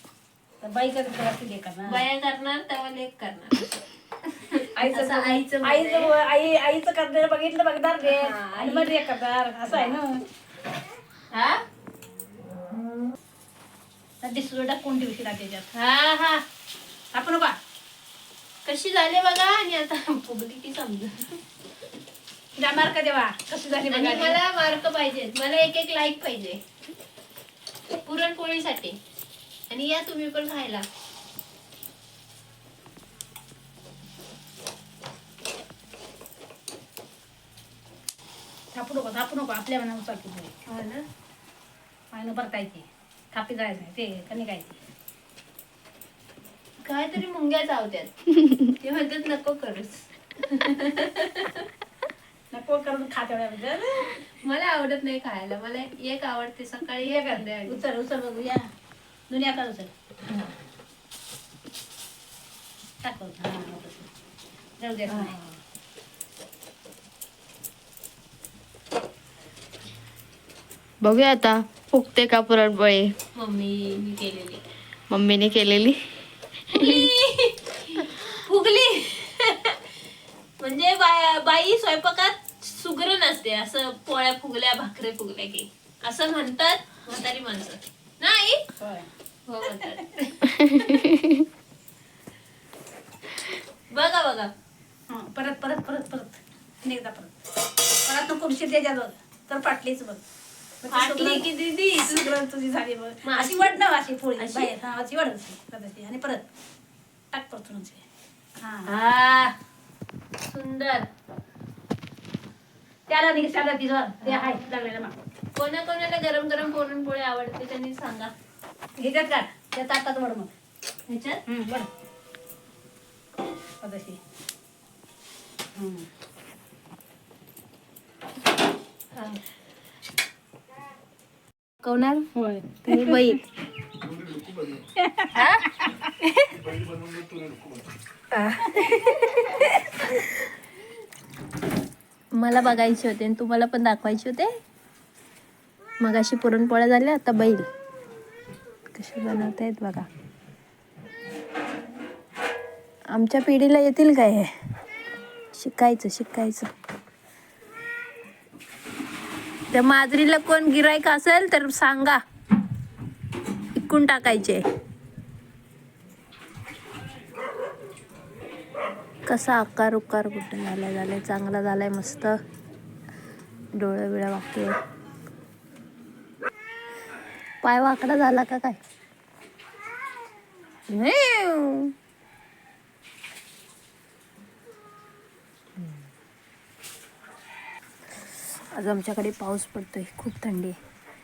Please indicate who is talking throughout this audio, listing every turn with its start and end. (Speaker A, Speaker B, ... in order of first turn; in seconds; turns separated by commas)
Speaker A: 0.6-2.0, Speaker B: 1.8-3.8, Speaker B: 4.5-6.1, Speaker A: 4.8-10.2, Speaker B: 8.0-9.0, Speaker B: 11.3-11.6, Speaker A: 14.2-15.7, Speaker B: 15.7-16.4, Speaker A: 17.1-17.6, Speaker B: 18.6-21.4, Speaker A: 22.6-24.4, Speaker B: 23.9-26.6, Speaker B: 28.1-29.0, Speaker B: 29.7-30.8, Speaker A: 38.7-40.5, Speaker B: 40.7-41.0, Speaker A: 42.1-44.7, Speaker B: 46.8-51.6, Speaker A: 52.5-54.1, Speaker B: 54.4-57.8, Speaker A: 57.0-58.7, Speaker A: 59.3-59.9, Speaker A: 63.0-64.1, Speaker A: 64.8-65.3, Speaker B: 65.1-65.5, Speaker C: 71.0-73.1, Speaker B: 73.3-74.6, Speaker C: 75.1-76.0, Speaker C: 76.7-77.1, Speaker B: 76.7-79.8, Speaker B: 80.6-88.6, Speaker A: 88.8-89.1, Speaker B: 89.5-91.1, Speaker B: 93.9-94.5, Speaker A: 95.1-97.3, Speaker A: 98.0-100.2, Speaker A: 100.8-106.5, Speaker B: 100.9-102.3, Speaker B: 103.2-103.7, Speaker B: 104.4-104.7, Speaker A: 107.3-108.0, Speaker A: 108.6-108.9, Speaker B: 108.8-109.5, Speaker B: 110.4-111.1, Speaker A: 113.1-115.1, Speaker B: 114.2-114.6, Speaker B: 115.5-118.3, Speaker A: 119.0-120.5, Speaker B: 121.1-121.4, Speaker A: 121.5-121.9, Speaker A: 123.8-124.2, Speaker A: 125.8-126.1, Speaker B: 129.1-129.4, Speaker B: 131.8-132.3, Speaker A: 132.3-133.2, Speaker B: 132.8-133.4, Speaker A: 135.0-135.8, Speaker B: 135.3-135.6, Speaker B: 138.3-140.2, Speaker B: 142.3-144.5, Speaker B: 146.0-147.7, Speaker B: 148.9-150.1, Speaker B: 153.1-154.5, Speaker B: 155.5-156.7, Speaker B: 159.7-162.2, Speaker B: 163.8-164.6, Speaker B: 169.3-172.3, Speaker B: 173.8-174.7, Speaker B: 177.6-178.8, Speaker B: 180.9-181.9, Speaker B: 188.7-190.8